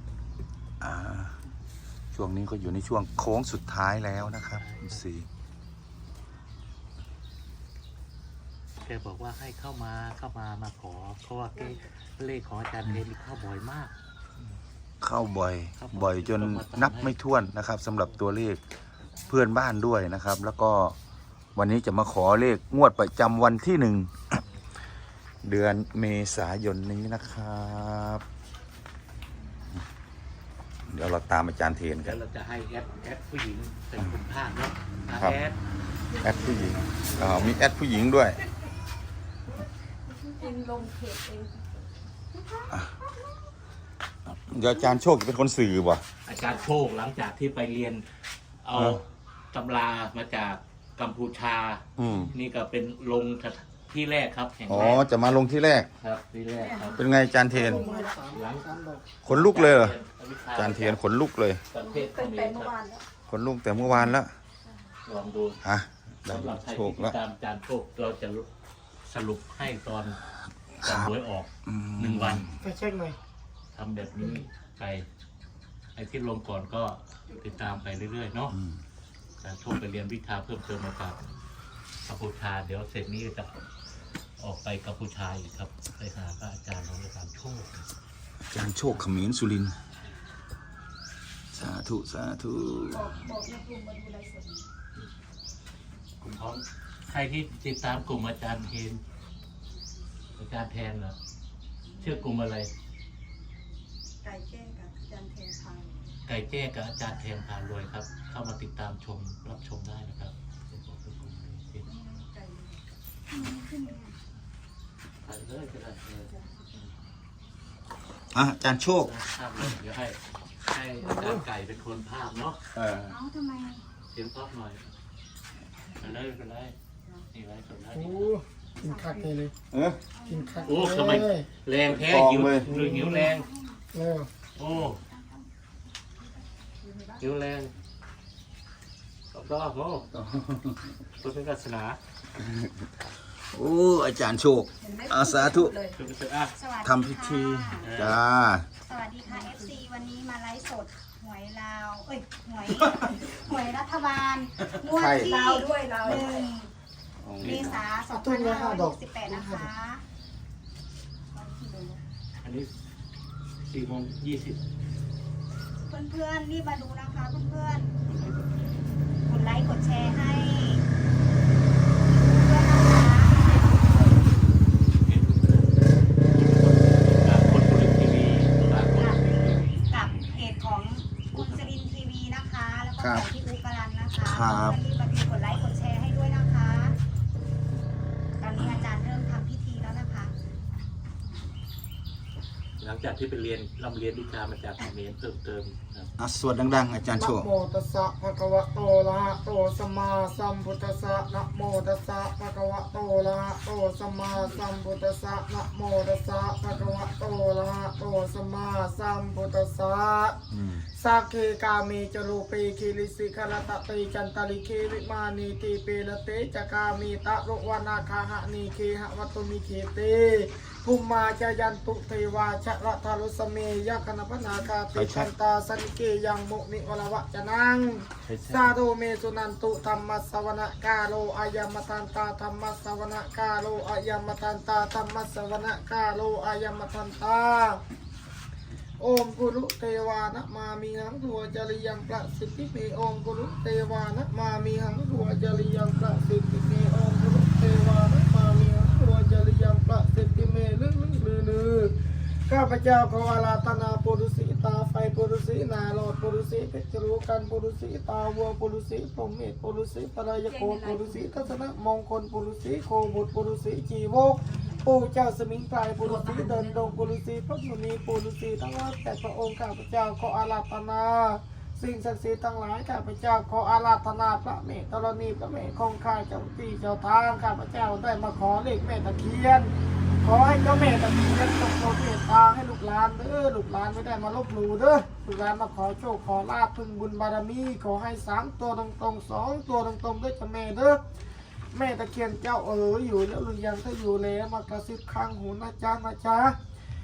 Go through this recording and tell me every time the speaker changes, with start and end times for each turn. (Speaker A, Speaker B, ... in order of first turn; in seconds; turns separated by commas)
Speaker A: 0.8-1.4, Speaker A: 2.1-5.3, Speaker B: 4.1-5.0, Speaker B: 8.8-14.5, Speaker A: 15.0-18.6, Speaker B: 15.8-17.2, Speaker A: 19.3-20.9, Speaker A: 21.5-24.4, Speaker A: 25.4-28.2, Speaker A: 30.9-32.2, Speaker B: 32.0-35.6, Speaker C: 36.1-37.2, Speaker A: 36.2-38.4, Speaker B: 37.2-37.5, Speaker C: 40.2-41.7, Speaker A: 44.2-46.0, Speaker B: 46.2-48.1, Speaker B: 48.6-55.4, Speaker A: 48.7-49.0, Speaker A: 52.0-52.3, Speaker A: 54.7-55.9, Speaker B: 56.0-57.0, Speaker C: 56.6-57.0, Speaker A: 56.9-57.8, Speaker C: 57.5-58.3, Speaker D: 57.5-59.1, Speaker B: 58.3-61.0, Speaker A: 59.2-60.0, Speaker A: 60.5-61.6, Speaker B: 61.7-62.8, Speaker C: 61.8-63.0, Speaker A: 63.3-64.3, Speaker B: 65.0-65.6, Speaker A: 65.6-67.2, Speaker B: 66.2-68.5, Speaker B: 69.0-70.2, Speaker A: 70.8-71.1, Speaker B: 70.8-72.5, Speaker A: 71.7-72.6, Speaker D: 72.6-73.2, Speaker B: 73.7-75.0, Speaker D: 74.2-74.4, Speaker B: 75.9-78.5, Speaker A: 78.5-78.8, Speaker B: 79.4-81.2, Speaker B: 82.0-83.5, Speaker B: 84.4-87.9, Speaker A: 88.5-89.8, Speaker A: 91.5-93.2, Speaker C: 92.9-94.6, Speaker B: 96.2-99.0, Speaker B: 100.3-101.2, Speaker B: 102.0-102.7, Speaker C: 104.2-106.0, Speaker B: 106.2-111.8, Speaker C: 111.8-112.8, Speaker E: 113.3-114.1, Speaker B: 115.2-116.8, Speaker A: 118.3-119.1, Speaker B: 119.0-122.6, Speaker D: 121.1-121.4, Speaker A: 122.7-123.1, Speaker E: 123.0-123.8, Speaker B: 124.1-124.9, Speaker B: 126.0-126.7, Speaker B: 127.3-128.3, Speaker D: 127.9-129.5, Speaker E: 128.8-129.3, Speaker A: 129.7-130.0, Speaker E: 130.1-131.2, Speaker D: 130.2-131.5, Speaker B: 130.7-133.5, Speaker A: 131.8-132.7, Speaker D: 132.6-133.3, Speaker E: 133.0-133.8, Speaker D: 133.9-134.3, Speaker B: 134.6-135.0, Speaker E: 134.7-135.5, Speaker E: 136.2-137.2, Speaker C: 136.8-137.1, Speaker B: 137.2-137.7, Speaker B: 139.3-140.1, Speaker A: 140.1-140.9, Speaker B: 141.2-142.0, Speaker A: 142.4-142.7, Speaker A: 143.5-145.8, Speaker C: 144.8-146.0, Speaker B: 145.9-146.5, Speaker E: 146.5-148.1, Speaker A: 146.8-148.7, Speaker B: 147.8-148.2, Speaker E: 148.8-156.7, Speaker C: 149.3-149.7, Speaker A: 154.8-155.3, Speaker C: 155.2-156.5, Speaker A: 157.2-157.8, Speaker B: 157.4-157.8, Speaker E: 157.4-160.0, Speaker D: 158.1-159.7, Speaker E: 161.3-162.0, Speaker B: 162.4-162.7, Speaker B: 163.6-164.6, Speaker E: 165.8-167.9, Speaker B: 168.0-168.8, Speaker E: 169.2-170.8, Speaker E: 172.0-174.3, Speaker B: 175.0-179.8, Speaker E: 178.9-179.3, Speaker E: 179.8-187.0, Speaker B: 181.3-181.7, Speaker A: 183.0-183.2, Speaker A: 184.2-184.8, Speaker E: 188.4-190.3, Speaker B: 192.8-196.1, Speaker A: 196.2-197.5, Speaker D: 197.1-210.4, Speaker A: 210.5-210.8, Speaker D: 210.9-237.8, Speaker A: 224.9-225.3, Speaker A: 228.3-228.8, Speaker D: 239.0-251.9, Speaker D: 252.5-291.0, Speaker C: 260.4-261.6, Speaker C: 264.4-264.9, Speaker C: 266.0-267.0, Speaker D: 291.7-296.6